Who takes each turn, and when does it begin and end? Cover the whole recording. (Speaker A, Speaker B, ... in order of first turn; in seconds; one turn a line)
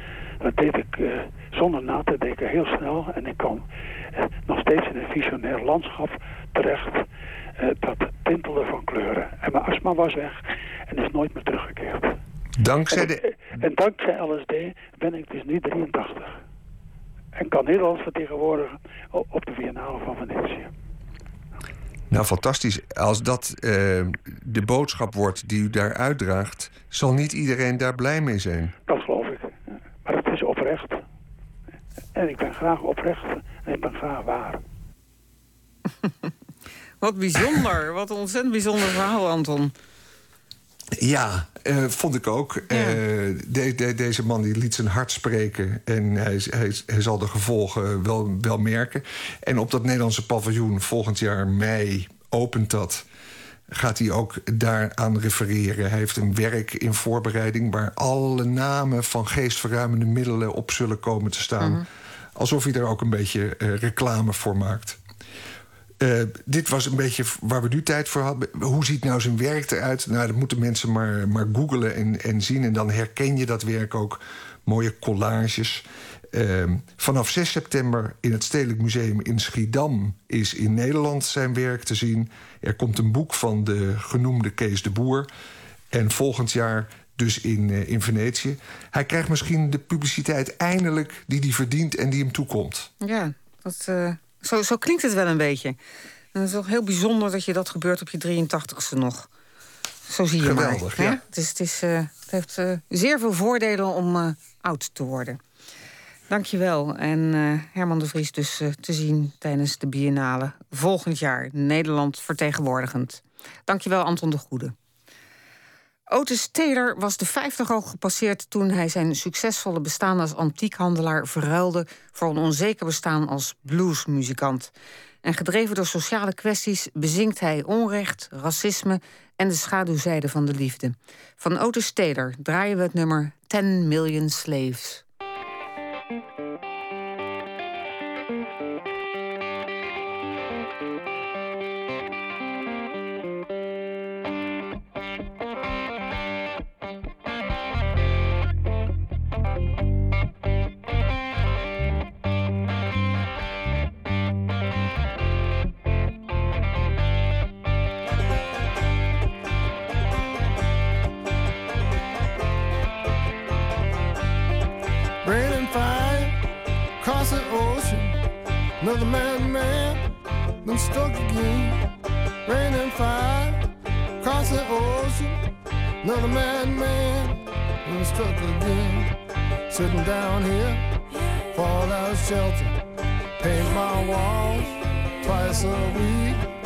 Speaker A: 0.4-3.6
Speaker A: 4.5-7.0
Speaker A: 7.6-10.4
Speaker A: 10.9-12.1
Speaker B: 12.6-13.2
Speaker A: 13.6-16.3
Speaker A: 17.4-20.7
Speaker B: 22.1-28.7
Speaker A: 28.9-29.5
Speaker A: 30.1-30.9
Speaker A: 32.1-34.6
Speaker C: 37.0-39.7
Speaker B: 41.0-53.0
Speaker C: 42.7-43.0
Speaker B: 53.8-61.8
Speaker B: 62.4-65.0
Speaker B: 66.0-85.3
Speaker B: 85.9-92.9
Speaker C: 93.0-95.8
Speaker C: 96.3-99.3
Speaker C: 100.1-105.4
Speaker B: 100.4-101.2
Speaker C: 106.3-114.7
Speaker C: 116.1-124.7
Speaker C: 125.2-135.0
Speaker D: 165.2-166.4
Speaker D: 167.0-168.1
Speaker D: 168.8-170.1
Speaker D: 170.6-171.9
Speaker D: 172.4-173.7
Speaker D: 174.2-175.4
Speaker D: 176.0-179.1
Speaker D: 179.7-180.8
Speaker D: 181.5-182.8
Speaker D: 183.4-186.5